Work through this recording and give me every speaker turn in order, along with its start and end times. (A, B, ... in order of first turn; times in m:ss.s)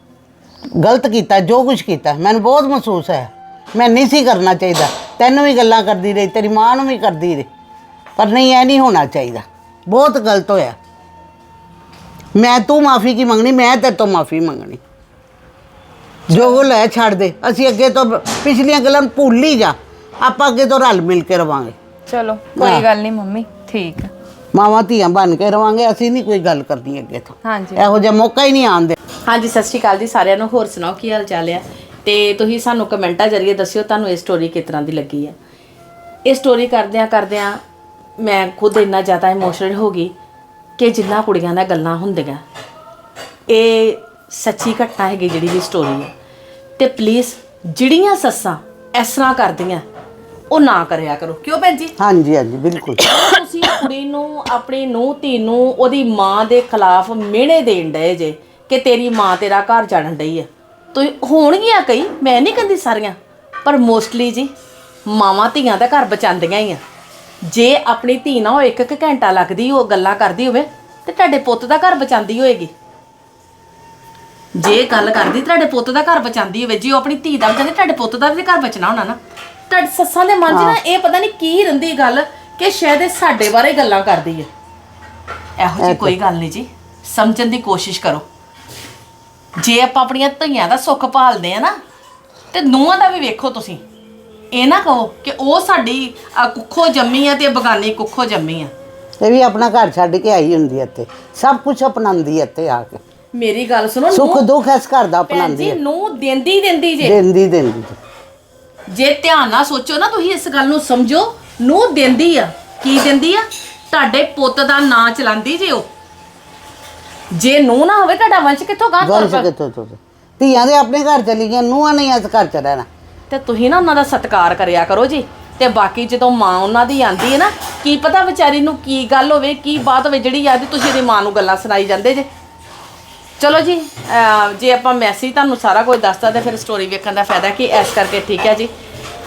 0:00.8-0:07.5 A
0:08.2-0:10.8 A
0:12.4-0:14.8 A
0:16.3-0:16.6 B
0:16.3-0:21.8 A
0:22.1-0:24.1 B
0:22.6-0:22.9 A
0:24.5-0:29.0 A
0:27.4-0:28.0 B
0:29.3-0:35.4 C
0:36.3-0:37.6 C
0:38.2-0:40.1 C
0:40.8-0:42.4 C
0:43.5-0:46.1 C
0:46.8-0:49.8 C
0:50.5-0:51.9 C
0:52.0-0:53.0 A
0:53.0-1:04.5 C
1:05.1-1:06.8 C
1:07.5-1:12.7 C
1:14.6-1:19.2 C
1:19.7-1:24.5 C
1:20.5-1:20.8 A
1:25.6-1:28.2 C
1:25.8-1:26.2 A
1:29.6-1:31.8 C
1:32.5-1:33.8 C
1:34.5-1:38.7 C
1:39.2-1:43.0 A
1:43.3-1:44.4 C
1:44.1-1:45.8 A
1:45.3-1:47.2 C
1:47.0-1:48.0 A
1:48.9-1:55.9 C
1:57.3-1:59.5 C
1:59.0-2:02.9 A
2:03.3-2:12.3 C
2:13.4-2:18.7 C